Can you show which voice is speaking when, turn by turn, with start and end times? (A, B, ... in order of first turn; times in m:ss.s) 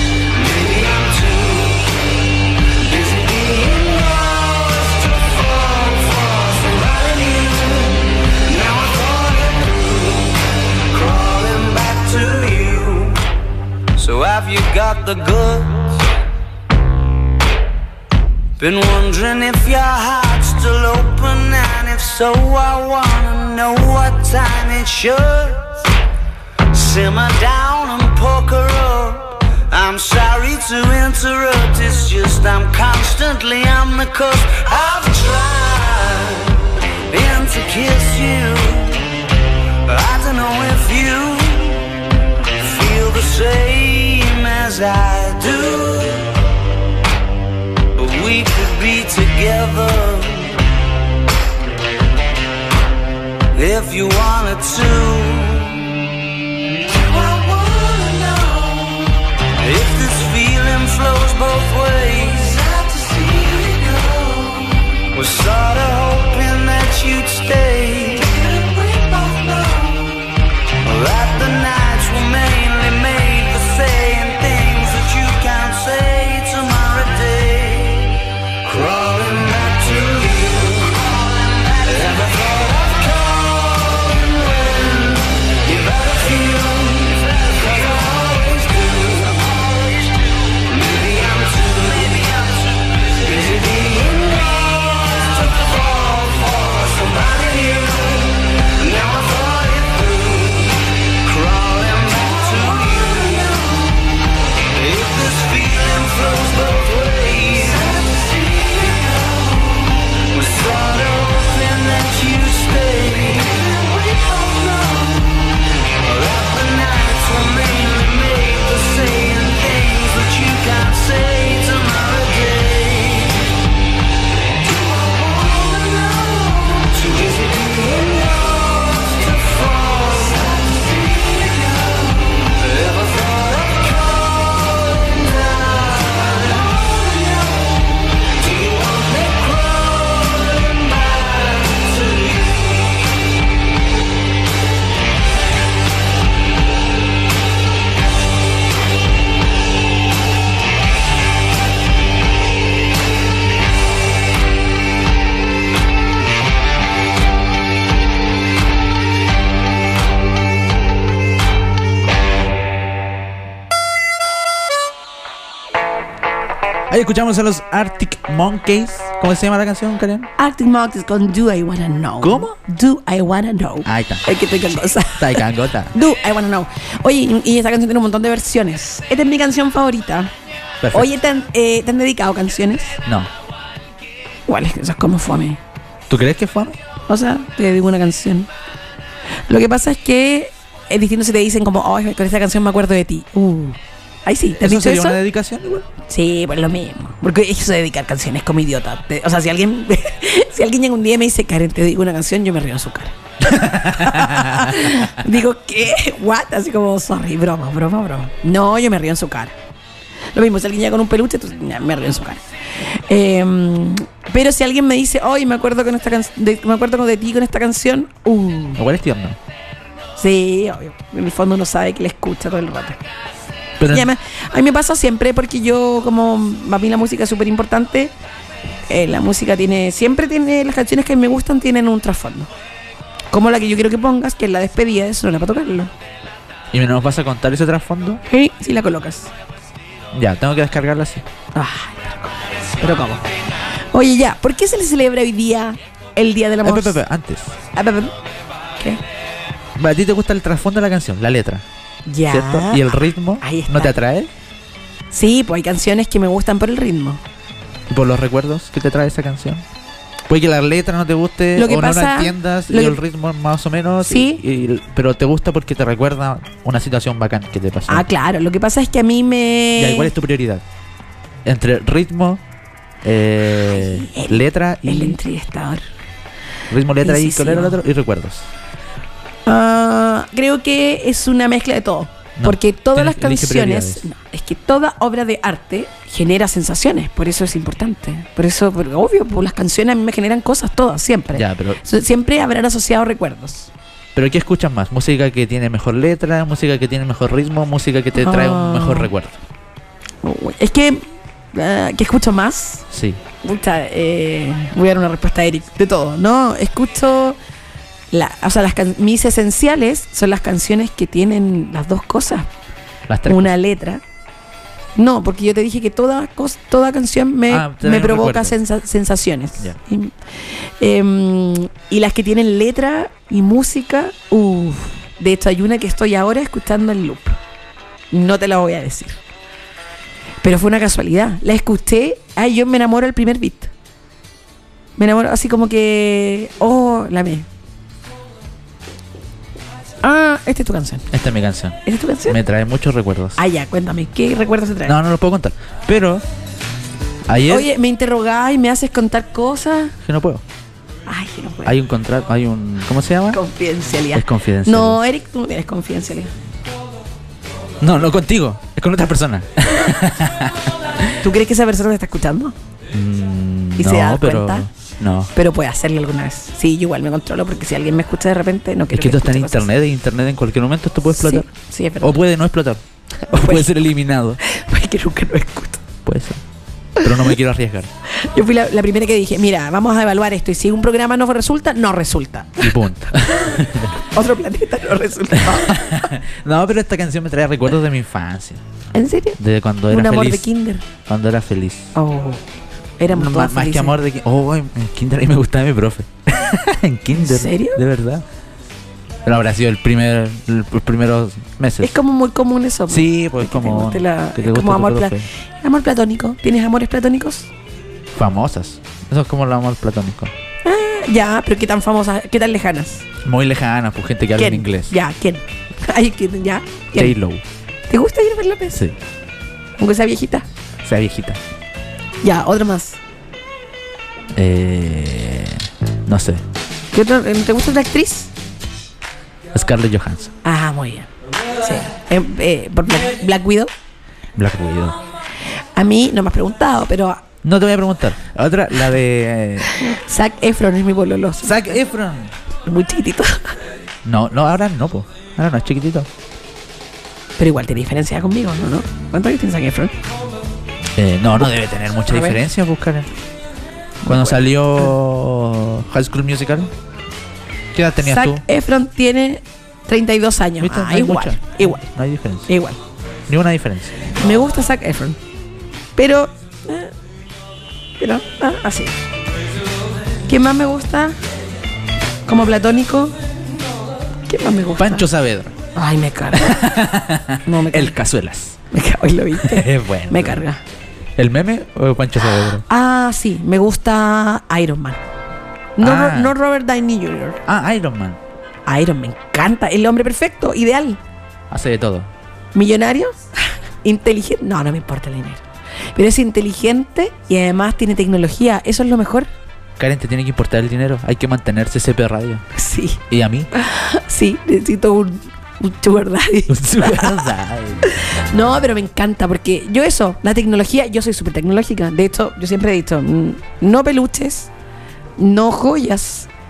0:00.3-0:02.0 A
0:02.8-0:13.2 A
0:14.0-0:15.8 A
0:18.6-0:25.8 A
0:26.7-0:39.1 A
0:39.9-0:41.9 A
0:42.6-0:46.4 A
0:47.9-0:50.7 A
0:53.5-0:55.9 A
0:57.3-0:57.6 A
0:59.6-1:04.0 A
1:05.1-1:08.4 A
1:10.8-1:30.1 A
1:30.7-1:43.8 A
1:44.7-1:48.0 A
1:50.1-1:53.8 A
1:54.4-2:03.5 A
2:04.9-2:17.6 A
2:18.2-2:22.6 A
2:46.9-2:50.3 B
2:50.4-3:00.3 C
2:52.2-2:52.5 B
2:53.8-2:54.3 B
2:55.0-2:56.0 B
3:00.8-3:01.1 B
3:00.9-3:03.0 C
3:03.0-3:03.3 B
3:04.5-3:05.6 C
3:06.1-3:06.8 B
3:07.1-3:08.5 C
3:09.5-3:15.2 C
3:14.6-3:15.9 B
3:16.1-3:29.5 C
3:23.4-3:25.0 B
3:30.3-3:38.8 C
3:38.8-3:39.4 B
3:40.2-3:43.0 C
3:43.8-3:44.1 B
3:43.9-3:48.1 C
3:48.9-3:52.5 C
3:53.3-3:55.9 C
3:56.7-3:58.2 B
3:58.3-3:59.3 C
4:00.1-4:01.2 B
4:01.5-4:03.2 C
4:03.9-4:07.0 C
4:06.6-4:07.6 B
4:07.7-4:08.1 C
4:09.8-4:11.6 B
4:12.1-4:14.0 C
4:12.3-4:14.3 B
4:15.1-4:17.2 C
4:17.9-4:19.6 B
4:20.3-4:28.0 B
4:21.6-4:23.0 C
4:24.0-4:24.4 C
4:27.9-4:30.1 C
4:29.8-4:30.6 B
4:31.4-4:32.4 B
4:33.0-4:35.2 B
4:33.7-4:35.8 C
4:36.7-4:38.5 B
4:37.0-4:37.8 C
4:39.5-4:53.7 C
4:42.4-4:44.1 B
4:51.3-4:51.8 B
4:54.2-4:59.4 B
4:58.2-4:59.1 C
5:00.2-5:02.8 C
5:02.9-5:03.2 B
5:03.4-5:07.4 C
5:08.1-5:12.5 C
5:13.1-5:13.5 B
5:13.3-5:14.0 C
5:15.0-5:27.4 C
5:17.5-5:18.6 B
5:28.1-5:29.2 C
5:30.4-5:33.7 C
5:35.0-5:37.5 C
5:40.0-5:41.1 C
5:41.1-5:43.4 B
5:41.8-5:42.4 C
5:43.4-5:45.0 C
5:44.9-5:46.2 B
5:47.3-5:47.7 B
5:47.5-5:50.0 C
5:50.0-5:50.4 B
5:51.1-5:51.8 C
5:51.6-5:53.4 B
5:53.3-5:56.3 C
5:54.1-5:55.0 B
5:57.8-6:01.2 B
6:01.2-6:02.6 C
6:02.9-6:05.3 B
6:03.8-6:04.7 C
6:05.3-6:09.7 C
6:08.9-6:11.5 B
6:11.1-6:12.2 C
6:12.0-6:14.4 B
6:13.3-6:13.7 C
6:14.4-6:15.8 C
6:16.0-6:16.4 B
6:17.0-6:17.9 B
6:18.1-6:22.8 C
6:22.6-6:24.0 B
6:24.0-6:26.1 C
6:25.4-6:28.6 B
6:28.9-6:30.8 C
6:29.4-6:31.9 B
6:32.0-6:32.4 C
6:33.0-6:34.0 C
6:33.1-6:38.2 B
6:37.1-6:37.8 C
6:39.2-6:42.0 B
6:41.8-6:47.5 C
6:42.9-6:45.3 B
6:48.2-6:50.3 B
6:50.6-6:53.1 C
6:53.2-6:55.0 B
6:54.4-6:57.2 C
6:56.9-6:57.4 B
6:57.9-6:58.8 C
6:58.7-6:59.0 B
6:59.8-7:00.4 C
7:00.8-7:01.4 B
7:02.2-7:03.0 C
7:04.4-7:06.4 B
7:06.9-7:08.3 C
7:09.5-7:10.3 B
7:10.4-7:11.1 C
7:11.6-7:13.7 C
7:14.4-7:15.0 B
7:15.8-7:17.2 C
7:17.4-7:19.7 B
7:19.6-7:21.8 C
7:21.4-7:22.3 B
7:22.7-7:23.6 C
7:24.0-7:26.1 B
7:27.4-7:29.9 C
7:31.0-7:33.1 B
7:32.1-7:32.4 C
7:34.0-7:34.9 C
7:34.0-7:36.7 B
7:37.7-7:38.4 B
7:38.0-7:41.8 C
7:40.6-7:42.5 B
7:42.5-7:42.8 C
7:43.3-7:44.0 B
7:44.2-7:45.2 C
7:46.0-7:46.9 C
7:48.0-7:49.0 C
7:50.3-7:51.2 C
7:52.3-7:53.2 C
7:54.3-7:55.1 C
7:54.8-7:55.6 B
7:55.8-7:56.7 C
7:56.3-7:58.6 B
7:57.4-7:58.0 C
7:58.7-8:00.6 C
7:59.4-8:00.4 B
8:01.2-8:02.6 B
8:02.6-8:05.0 C
8:05.8-8:07.4 C
8:05.8-8:06.4 B
8:07.5-8:08.2 B
8:08.7-8:11.0 C
8:11.5-8:12.1 B
8:12.6-8:13.2 C
8:13.8-8:15.4 C
8:16.0-8:19.3 C
8:19.8-8:22.4 B
8:22.5-8:23.0 C
8:23.1-8:23.5 B
8:23.5-8:27.3 C
8:26.5-8:27.9 B
8:27.9-8:34.5 C
8:35.2-8:36.3 C